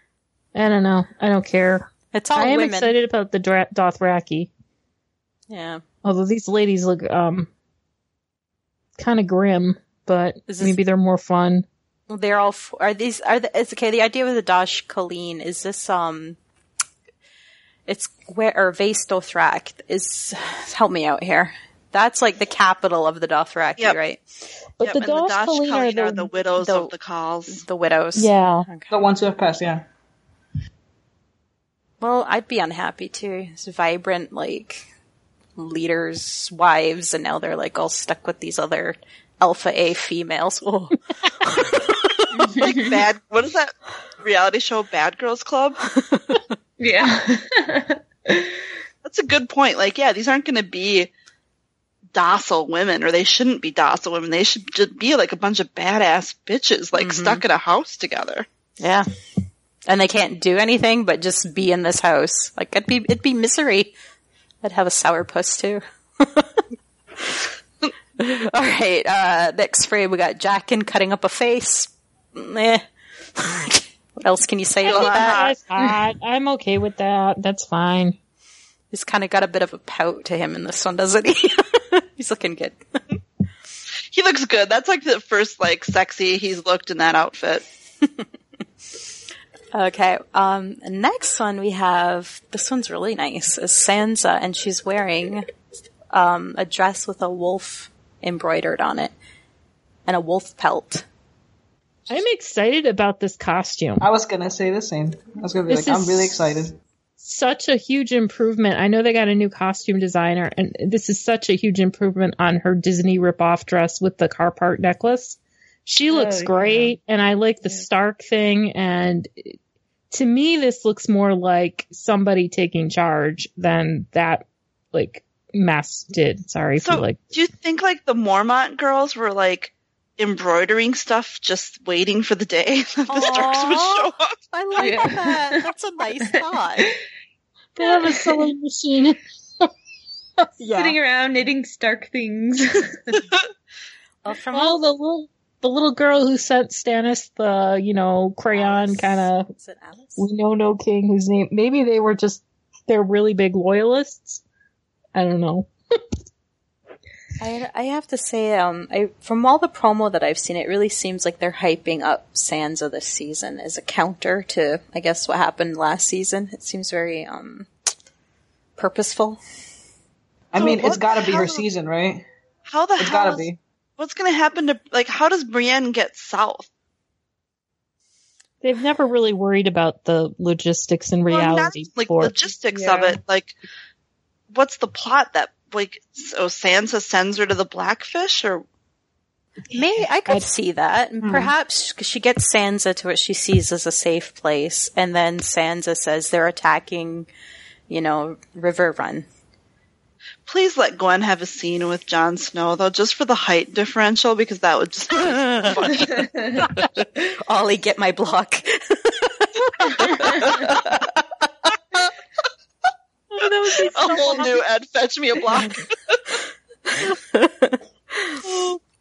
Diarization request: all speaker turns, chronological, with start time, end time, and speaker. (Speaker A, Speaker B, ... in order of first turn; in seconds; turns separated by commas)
Speaker A: 0.5-4.5, Speaker B: 2.1-3.0, Speaker B: 5.5-5.8, Speaker A: 6.0-7.5, Speaker A: 9.0-11.7, Speaker B: 10.5-10.8, Speaker B: 12.1-16.4, Speaker B: 17.9-24.2, Speaker A: 24.8-26.3, Speaker C: 24.8-27.6, Speaker B: 26.6-26.9, Speaker B: 27.5-28.9, Speaker A: 28.1-28.7, Speaker D: 28.9-29.8, Speaker B: 32.0-34.9, Speaker B: 35.6-42.6, Speaker C: 42.5-45.8, Speaker E: 42.5-42.9, Speaker B: 45.9-46.5, Speaker E: 46.8-48.6, Speaker C: 49.0-51.1, Speaker C: 52.1-58.5, Speaker B: 57.0-57.4, Speaker B: 58.8-59.1, Speaker B: 59.9-63.9, Speaker B: 64.6-66.6, Speaker B: 67.2-67.5, Speaker B: 68.2-72.8, Speaker B: 73.4-75.5, Speaker A: 74.8-78.2, Speaker C: 74.9-75.5, Speaker B: 78.9-82.8, Speaker C: 84.1-87.6, Speaker B: 89.7-95.5, Speaker B: 96.1-99.1, Speaker B: 100.1-101.0, Speaker A: 102.1-104.1, Speaker D: 104.0-106.8, Speaker A: 105.7-106.5, Speaker A: 107.2-119.6, Speaker E: 116.1-117.0, Speaker A: 120.1-127.3, Speaker C: 126.8-134.4, Speaker B: 133.1-136.9, Speaker E: 134.8-135.7, Speaker A: 137.8-139.7, Speaker E: 137.8-138.5, Speaker E: 140.7-143.2, Speaker B: 144.2-144.8, Speaker A: 144.5-149.5, Speaker B: 148.5-150.3, Speaker A: 150.2-154.4, Speaker A: 155.1-155.7, Speaker B: 157.4-167.7, Speaker B: 168.8-169.4, Speaker D: 170.5-172.2, Speaker C: 170.6-171.6, Speaker C: 172.7-173.5, Speaker D: 173.0-173.6, Speaker C: 174.0-176.7, Speaker A: 178.6-182.4, Speaker C: 181.3-183.6, Speaker E: 182.7-183.2, Speaker C: 184.5-188.6, Speaker B: 189.7-197.3, Speaker D: 191.2-191.5, Speaker B: 197.9-199.3, Speaker C: 200.5-206.7, Speaker B: 205.2-205.8, Speaker E: 206.2-206.7, Speaker B: 206.6-211.1, Speaker A: 213.3-214.6, Speaker C: 213.9-216.2, Speaker B: 216.9-218.4, Speaker C: 218.5-218.8